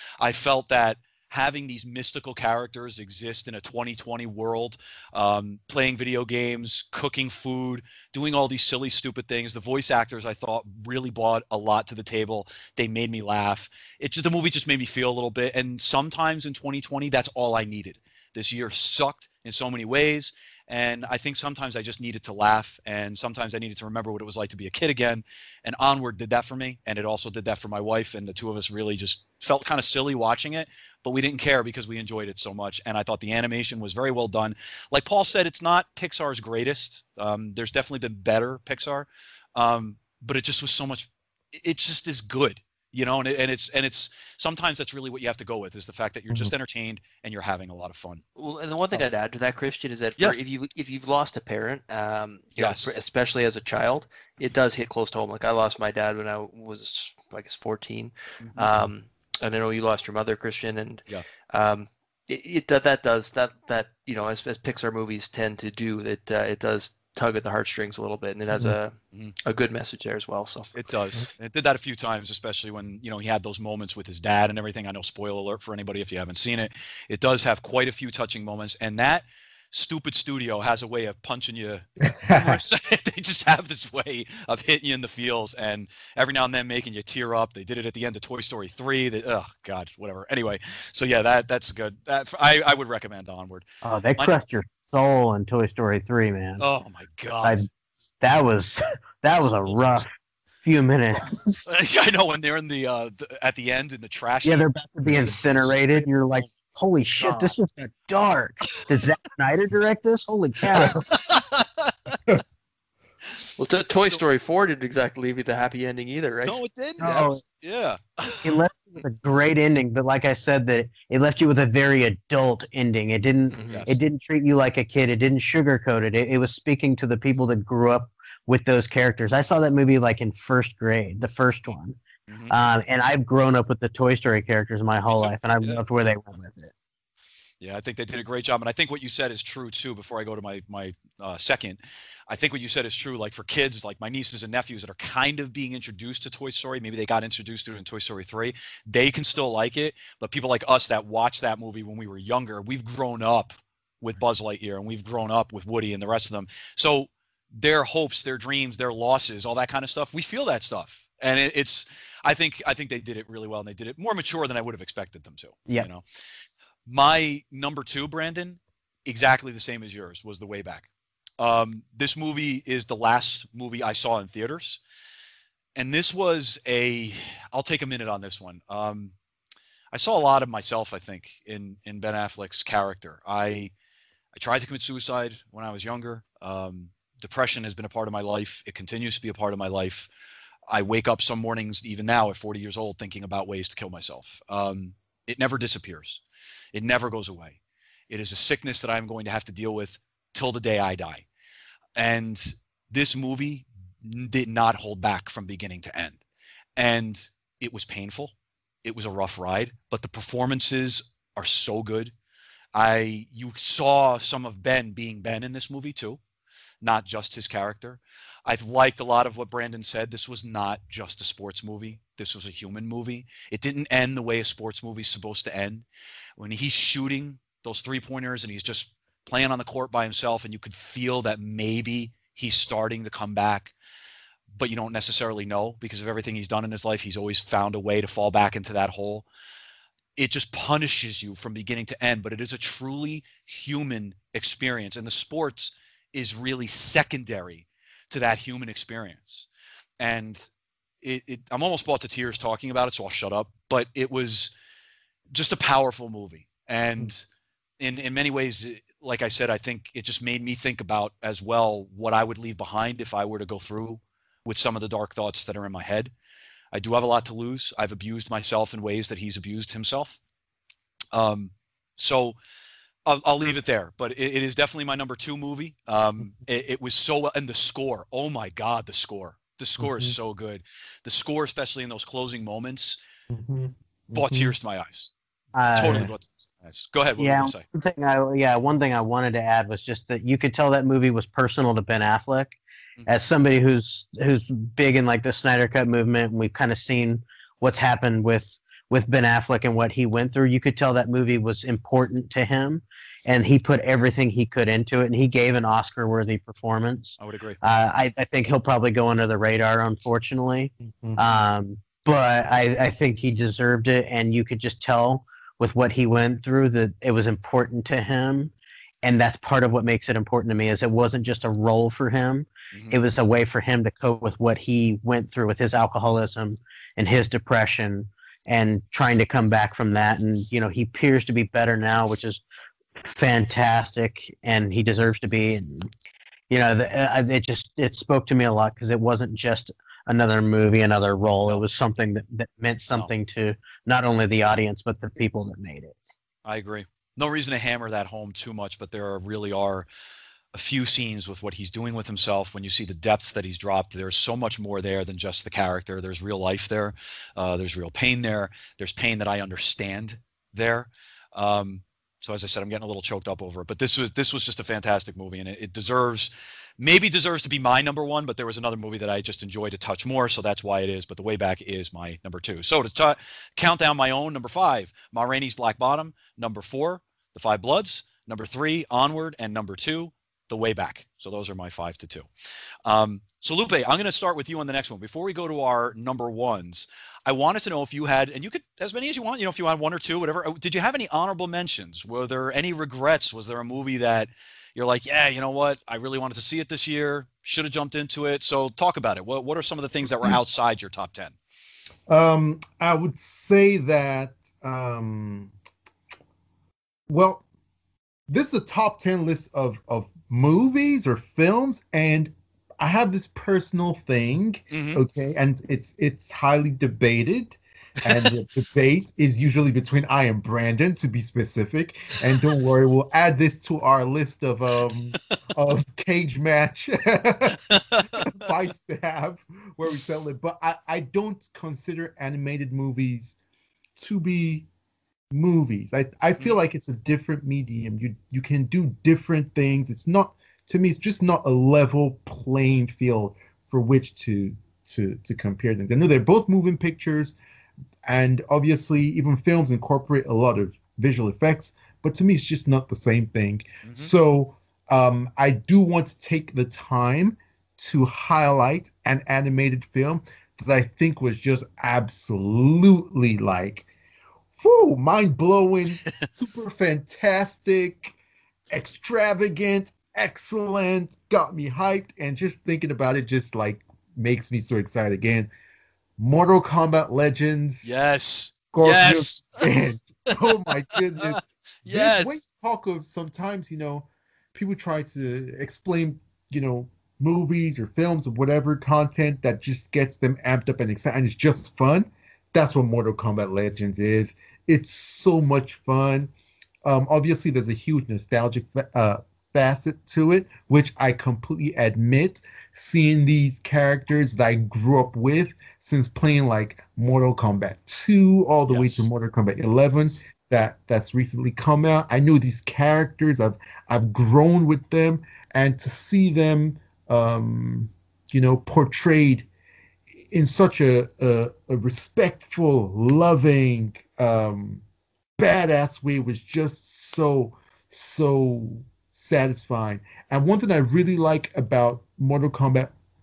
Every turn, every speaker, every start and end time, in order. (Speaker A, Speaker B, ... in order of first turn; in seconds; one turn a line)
Speaker A: 0.2-48.2
Speaker B: 48.4-69.0
Speaker A: 52.6-53.0
Speaker A: 58.4-58.9
Speaker C: 68.5-68.8
Speaker B: 69.5-70.8
Speaker A: 70.8-93.7
Speaker C: 82.1-82.6
Speaker D: 93.8-96.6
Speaker A: 96.6-97.7
Speaker D: 97.4-97.7
Speaker D: 98.2-100.1
Speaker D: 100.6-101.6
Speaker A: 101.2-105.3
Speaker D: 104.4-111.0
Speaker A: 105.9-106.5
Speaker B: 107.2-107.5
Speaker A: 108.8-109.0
Speaker C: 110.7-111.0
Speaker A: 110.8-112.2
Speaker B: 113.6-116.6
Speaker A: 116.5-118.6
Speaker D: 117.0-117.4
Speaker D: 118.4-132.0
Speaker B: 123.5-123.9
Speaker A: 123.7-124.0
Speaker A: 132.3-132.5
Speaker D: 132.5-136.7
Speaker A: 135.1-135.8
Speaker A: 137.6-166.1
Speaker A: 166.9-174.8
Speaker A: 175.8-179.1
Speaker A: 179.9-183.7
Speaker A: 184.3-190.1
Speaker A: 190.7-196.2
Speaker A: 196.7-197.6
Speaker A: 198.1-201.2
Speaker A: 202.0-206.2
Speaker A: 206.8-208.3
Speaker A: 208.8-212.1
Speaker A: 212.7-216.2
Speaker A: 216.8-225.8
Speaker A: 226.4-233.7
Speaker A: 234.6-239.2
Speaker A: 240.2-249.5
Speaker A: 250.0-250.5
Speaker A: 251.0-254.5
Speaker A: 255.3-257.2
Speaker A: 257.8-266.1
Speaker A: 266.7-270.2
Speaker A: 271.1-272.4
Speaker A: 273.1-283.0
Speaker C: 279.8-280.2
Speaker C: 283.3-284.6
Speaker A: 284.1-285.1
Speaker D: 285.6-286.1
Speaker A: 285.7-287.6
Speaker C: 285.8-286.1
Speaker D: 287.2-332.4
Speaker A: 307.2-307.6
Speaker C: 310.9-311.2
Speaker A: 322.7-323.0
Speaker D: 333.0-335.9
Speaker D: 336.5-346.0
Speaker A: 346.4-349.9
Speaker A: 350.5-382.3
Speaker A: 382.9-401.4
Speaker C: 402.1-405.5
Speaker C: 407.1-407.4
Speaker C: 408.3-433.4
Speaker A: 414.7-415.0
Speaker A: 418.0-418.4
Speaker C: 434.0-434.7
Speaker C: 435.3-447.4
Speaker C: 448.1-463.9
Speaker A: 453.8-454.1
Speaker C: 464.6-468.2
Speaker C: 468.7-475.5
Speaker C: 476.2-477.9
Speaker A: 477.8-480.5
Speaker C: 478.7-496.3
Speaker A: 481.9-482.4
Speaker C: 496.9-519.5
Speaker A: 508.7-509.1
Speaker C: 520.3-524.8
Speaker C: 525.4-532.9